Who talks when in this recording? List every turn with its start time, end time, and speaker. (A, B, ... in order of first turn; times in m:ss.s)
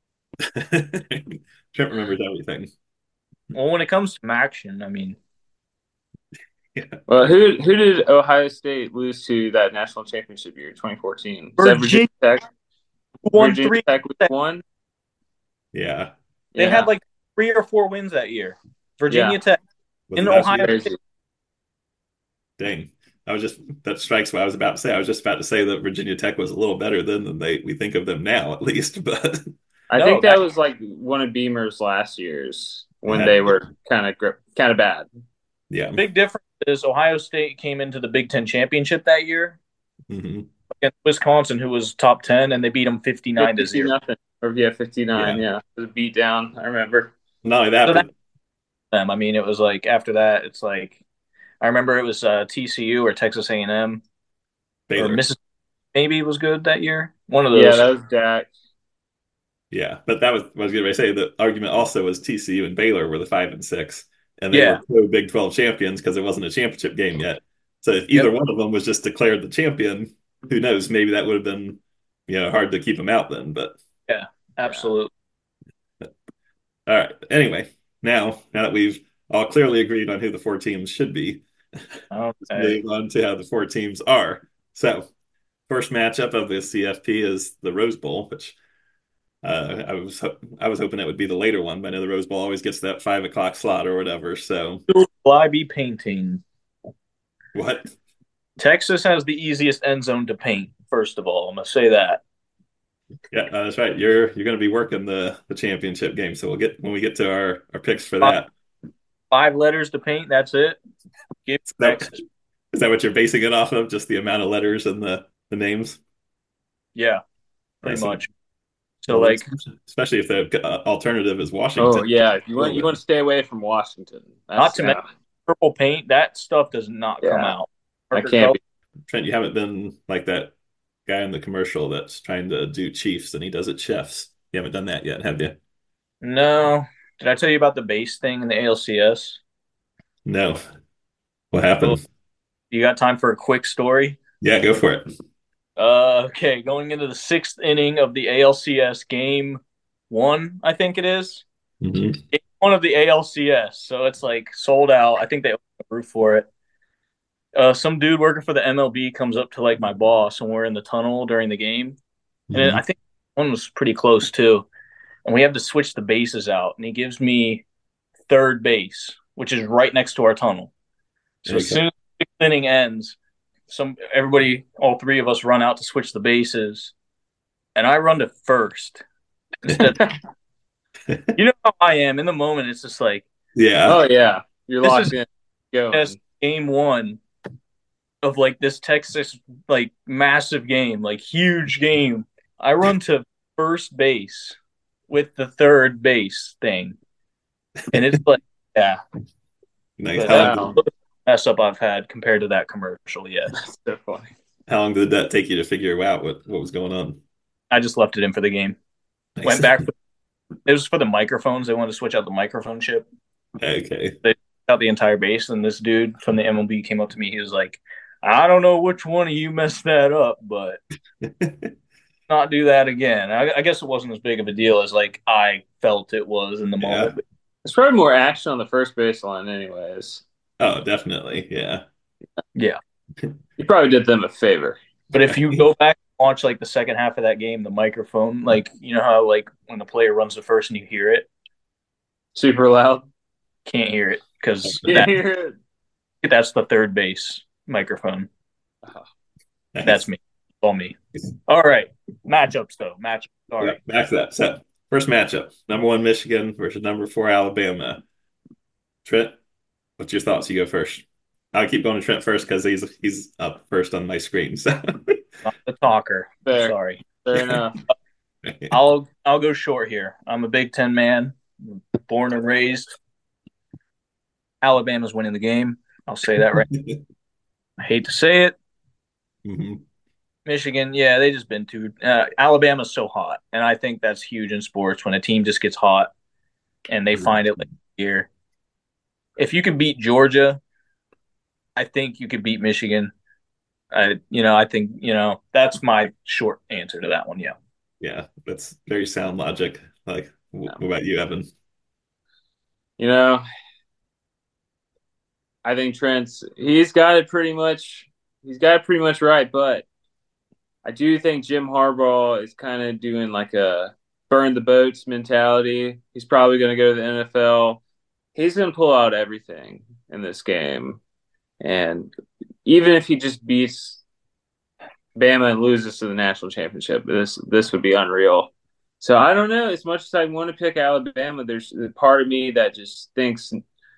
0:00.4-0:02.7 A
0:03.5-0:05.2 B
0:06.7-0:07.0 A
0:07.1-0:12.4 C
0:11.6-0:12.1 B
0:13.2-0:14.3 B
0:13.3-0:14.6 C
0:15.7-0:16.1 A
0:16.6-0:16.9 C
0:16.6-0:19.6 B
0:19.1-0:19.4 C
0:20.1-0:20.7 A
0:20.2-0:20.9 B
0:20.5-0:20.9 C
0:22.6-0:29.5 A
0:29.9-0:35.1 C
0:29.9-0:30.4 B
0:33.1-0:33.6 A
0:35.7-0:36.0 A
0:36.0-0:39.6 B
0:40.1-0:40.5 A
0:40.8-0:43.9 B
0:43.4-0:47.1 C
0:45.1-0:45.4 A
0:47.4-0:48.1 A
0:48.9-0:51.0 B
0:51.6-0:54.0 B
0:54.9-0:55.2 A
0:55.0-0:55.4 B
0:55.9-0:57.8 B
0:57.5-0:58.5 C
0:59.7-1:13.8 A
1:04.5-1:04.8 B
1:14.1-1:15.1 B
1:16.9-1:21.4 A
1:22.1-1:22.8 B
1:22.5-1:25.1 A
1:25.7-1:28.6 A
1:29.4-1:34.8 A
1:34.9-1:36.4 B
1:37.5-1:37.9 A
1:38.6-1:42.2 B
1:43.3-1:48.5 A
1:49.3-1:50.8 B
1:51.4-1:52.1 B
1:51.7-1:52.2 A
1:52.7-1:56.0 A
1:57.0-1:57.2 B
1:57.8-1:58.3 B
1:57.8-1:58.2 A
1:59.0-1:59.4 B
1:59.1-2:03.0 A
2:01.8-2:05.0 C
2:04.6-2:08.6 B
2:07.2-2:07.5 C
2:08.1-2:08.6 C
2:09.1-2:10.5 A
2:11.0-2:15.6 A
2:16.2-2:19.4 B
2:20.2-2:20.6 A
2:21.5-2:22.0 A
2:22.7-2:24.2 B
2:24.4-2:25.1 A
2:25.8-2:31.4 B
2:31.8-2:32.2 A
2:32.3-2:36.5 B
2:37.5-2:42.0 B
2:42.5-2:42.8 A
2:42.5-2:44.7 B
2:45.2-2:47.6 B
2:48.3-2:50.7 B
2:51.4-2:53.2 B
2:51.4-2:51.8 A
2:53.7-2:56.9 B
2:57.8-2:59.0 B
2:59.6-3:00.1 B
3:01.1-3:01.3 A
3:01.4-3:03.2 B
3:03.5-3:04.0 A
3:03.8-3:06.2 C
3:04.8-3:05.1 B
3:05.9-3:07.2 B
3:08.2-3:14.6 B
3:15.1-3:17.0 B
3:17.9-3:19.0 B
3:20.0-3:20.8 A
3:20.1-3:23.5 B
3:20.3-3:20.8 C
3:23.5-3:24.3 C
3:24.7-3:27.2 A
3:27.7-3:28.8 B
3:29.4-3:29.8 A
3:29.4-3:29.9 B
3:30.6-3:33.0 B
3:33.6-3:34.2 A
3:34.2-3:40.8 B
3:41.2-3:41.7 A
3:42.3-3:47.2 B
3:46.8-3:47.1 A
3:47.6-3:50.2 C
3:50.6-3:51.8 A
3:53.6-3:54.8 C
3:55.1-4:01.3 B
3:55.2-3:55.6 A
4:02.3-4:03.1 C
4:03.6-4:05.2 B
4:04.8-4:05.6 C
4:06.2-4:08.3 B
4:09.7-4:10.0 A
4:09.8-4:11.0 B
4:11.5-4:13.8 B
4:13.6-4:18.0 A
4:19.0-4:19.4 A
4:20.0-4:25.2 A
4:25.4-4:27.0 B
4:26.4-4:27.8 C
4:27.3-4:27.6 A
4:28.4-4:28.7 A
4:28.7-4:32.9 B
4:34.6-4:36.7 B
4:36.4-4:37.0 A
4:37.8-4:38.6 B
4:39.4-4:39.8 A
4:40.4-4:46.1 B
4:46.9-4:48.3 B
4:49.4-4:50.6 B
4:51.8-4:53.1 B
4:53.9-4:57.5 B
4:58.0-5:01.5 A
5:03.0-5:03.4 C
5:05.6-5:09.8 C
5:10.8-5:17.8 C
5:18.3-5:21.0 C
5:21.6-5:22.1 C
5:22.6-5:24.0 C
5:25.2-5:33.6 C